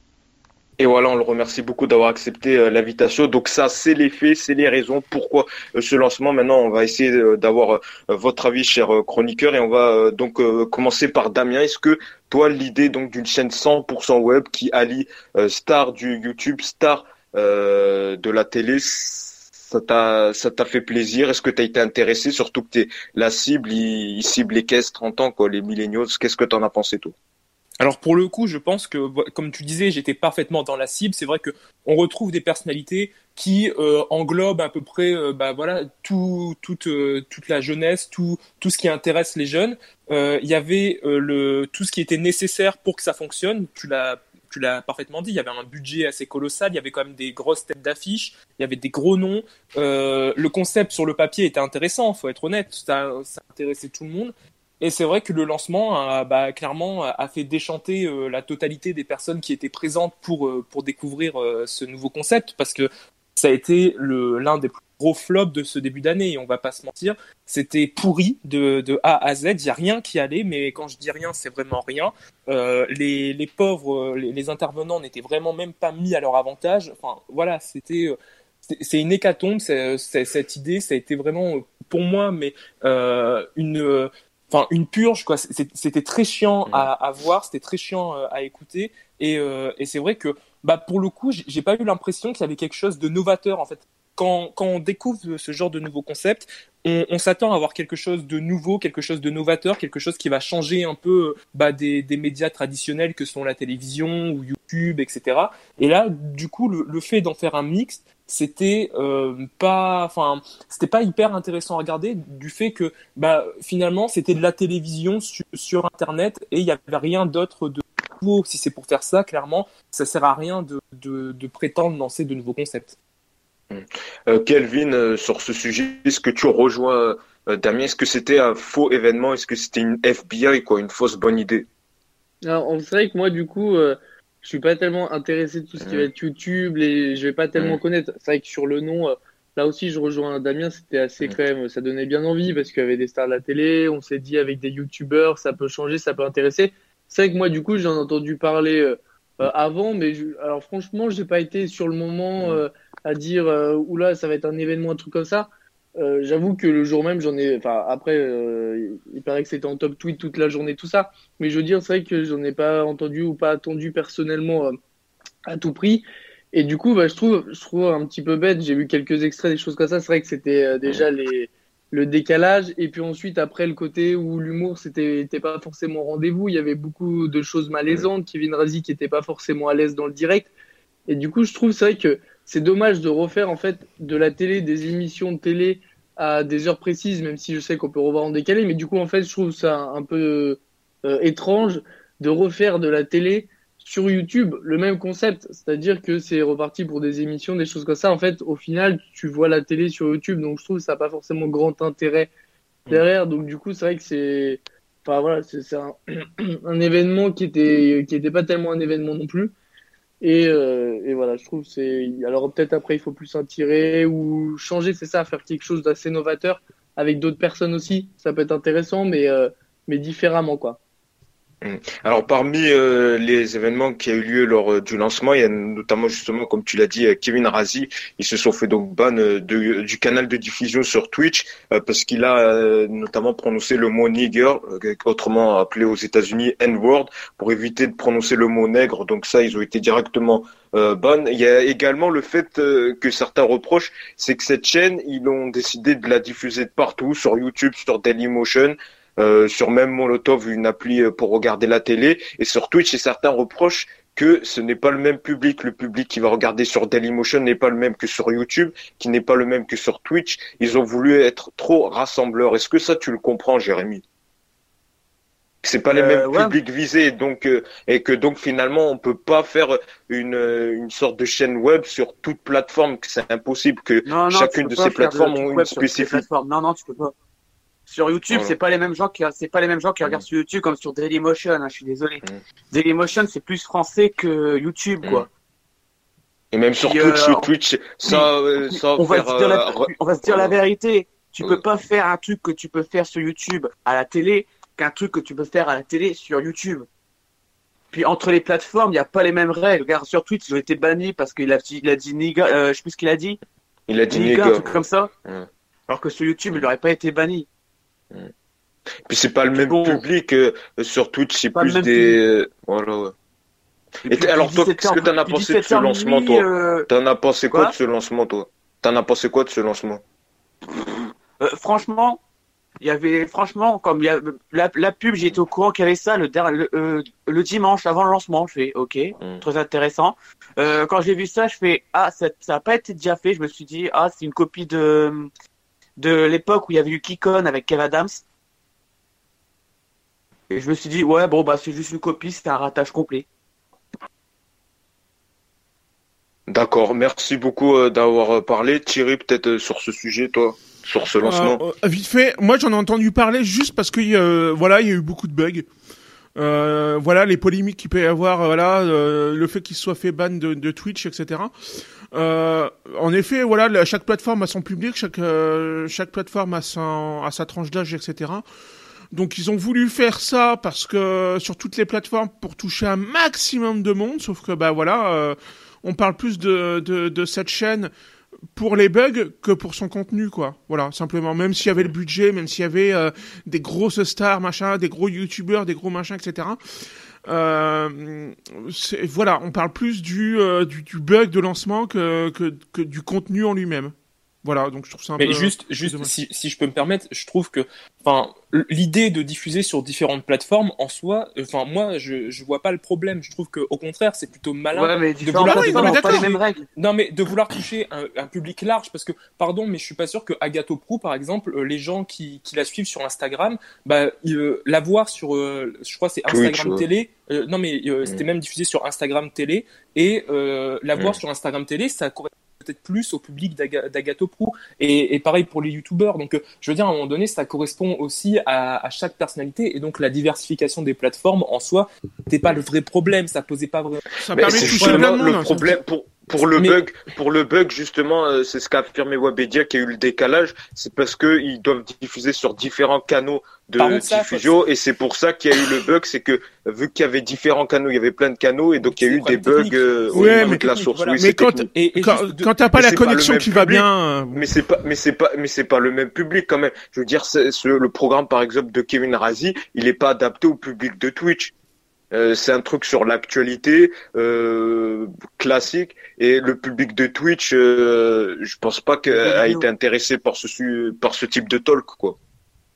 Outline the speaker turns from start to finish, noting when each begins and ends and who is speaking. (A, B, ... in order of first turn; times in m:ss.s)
0:00.8-0:27.1 A
0:27.8-1:18.2 B
1:18.7-2:03.0 B
2:03.7-2:11.7 A
2:12.4-2:44.8 C
2:15.8-2:16.1 A
2:32.4-2:32.6 A
2:45.5-3:00.5 C
3:01.1-3:22.3 C
3:22.9-3:29.5 C
3:30.2-3:40.8 C
3:41.6-4:24.0 A
4:25.6-4:36.2 A
4:25.9-4:26.6 D
4:34.0-4:37.1 D
4:37.9-4:45.3 D
4:38.3-4:38.6 A
4:45.0-4:45.3 A
4:46.5-4:50.6 A
4:46.8-4:47.5 D
4:48.0-4:56.9 D
4:57.9-5:03.4 D
5:03.9-5:05.5 A
5:04.1-5:05.1 D
5:05.9-5:07.5 D
5:09.1-5:13.1 A
5:09.6-5:10.0 D
5:11.6-5:12.2 D
5:14.0-5:16.9 D
5:14.0-5:20.0 A
5:20.7-5:22.2 D
5:22.8-5:35.3 D
5:29.2-5:29.5 A
5:36.0-5:38.2 D
5:40.5-5:43.3 D
5:46.5-5:51.6 A
5:51.2-5:55.7 E
5:56.4-6:01.5 E
6:02.1-6:08.4 E
6:09.1-6:17.9 E
6:18.5-6:26.6 E
6:27.3-6:36.1 E
6:35.2-7:15.1 B
6:44.7-6:46.6 D
6:45.4-6:46.3 E
6:56.3-6:56.8 A
7:14.2-7:15.7 E
7:14.4-7:31.7 A
7:16.4-7:16.8 B
7:23.8-7:24.6 B
7:28.9-7:32.5 B
7:30.1-7:30.6 E
7:31.2-7:34.5 E
7:32.7-7:41.5 A
7:42.1-7:52.2 A
7:49.1-7:49.6 D